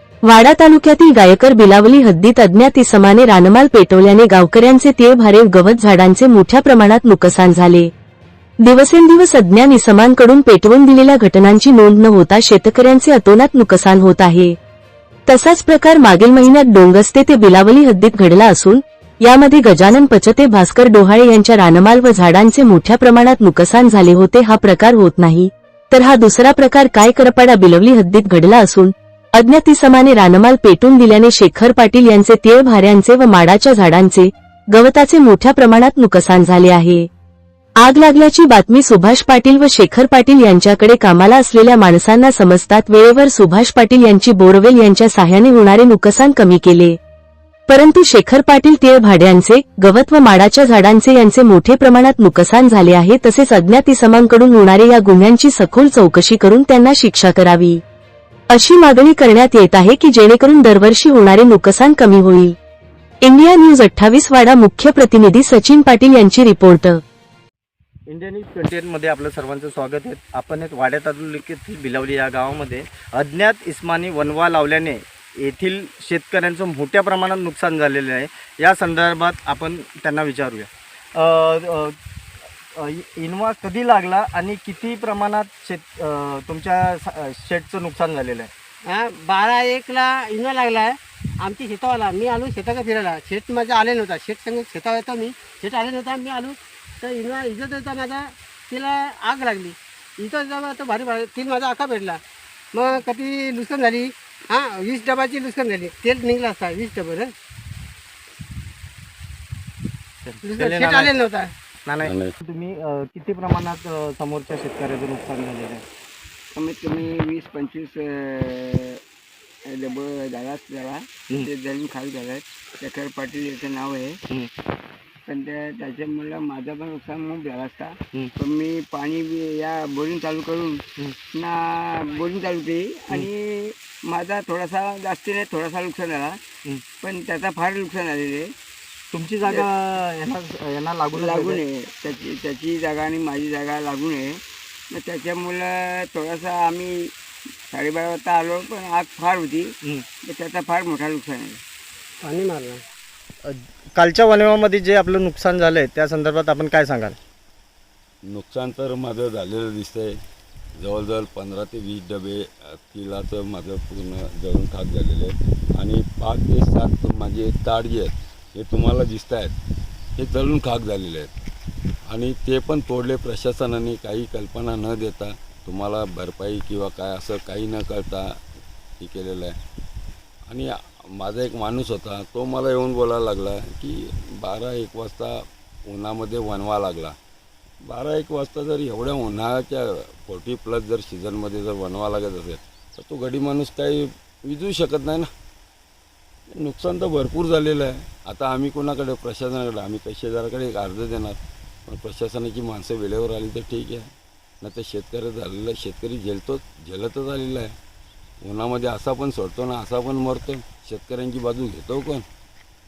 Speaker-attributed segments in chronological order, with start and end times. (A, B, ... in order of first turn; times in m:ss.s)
0:00.2-0:07.9 A
0:08.6-0:14.6 A
0:15.3-0:37.1 A
0:37.8-0:47.0 A
0:47.7-0:57.8 A
0:58.5-1:02.6 A
1:03.2-1:07.0 A
1:08.1-1:22.0 B
1:22.8-1:28.5 B
1:28.9-1:42.2 C
1:42.7-1:47.3 C
1:50.2-1:51.1 B
1:50.4-1:51.5 C
1:51.8-1:55.8 B
1:52.0-1:52.4 D
1:56.5-1:59.0 E
1:59.6-2:04.2 E
2:05.2-2:16.4 E
2:17.0-2:18.5 E
2:19.1-2:21.6 B
2:21.1-2:24.4 E
2:24.9-2:27.1 E
2:27.7-2:29.7 E
2:30.2-2:31.6 E
2:32.2-2:32.8 C
2:33.4-2:37.2 B
2:38.3-2:40.1 D
2:40.8-2:49.5 D
2:50.2-2:51.3 D
2:52.1-2:58.3 D
2:59.0-2:59.6 D
3:00.5-3:07.2 D
3:07.8-3:15.3 D
3:16.5-3:24.1 D
3:24.6-3:27.7 D
3:28.4-3:32.2 D